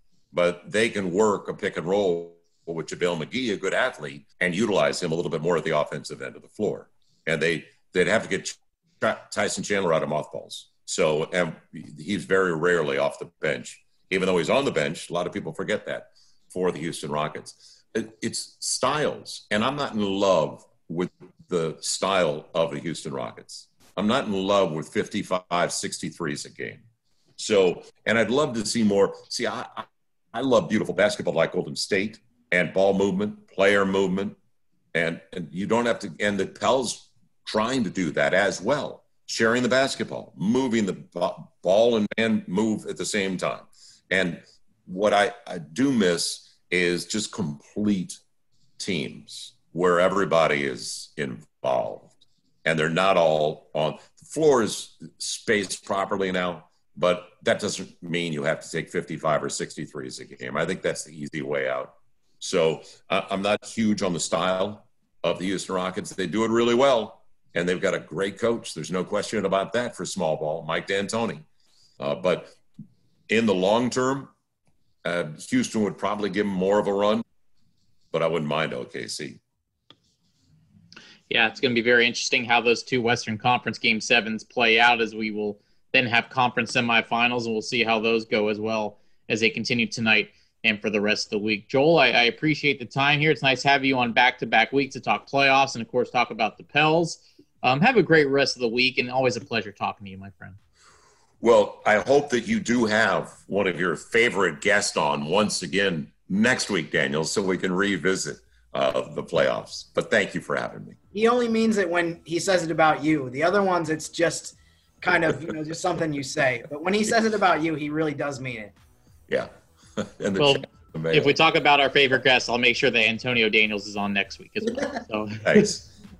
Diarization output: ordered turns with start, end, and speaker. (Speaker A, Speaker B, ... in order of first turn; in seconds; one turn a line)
Speaker A: 0.3-26.8
Speaker A: 27.4-34.4
Speaker A: 34.9-48.2
Speaker A: 48.8-71.4
Speaker A: 72.0-72.6
Speaker A: 73.3-74.3
Speaker A: 75.0-77.2
Speaker A: 78.1-79.4
Speaker B: 81.3-100.6
Speaker A: 101.4-111.0
Speaker C: 111.1-118.7
Speaker A: 119.3-121.3
Speaker B: 120.4-125.6
Speaker A: 125.4-125.9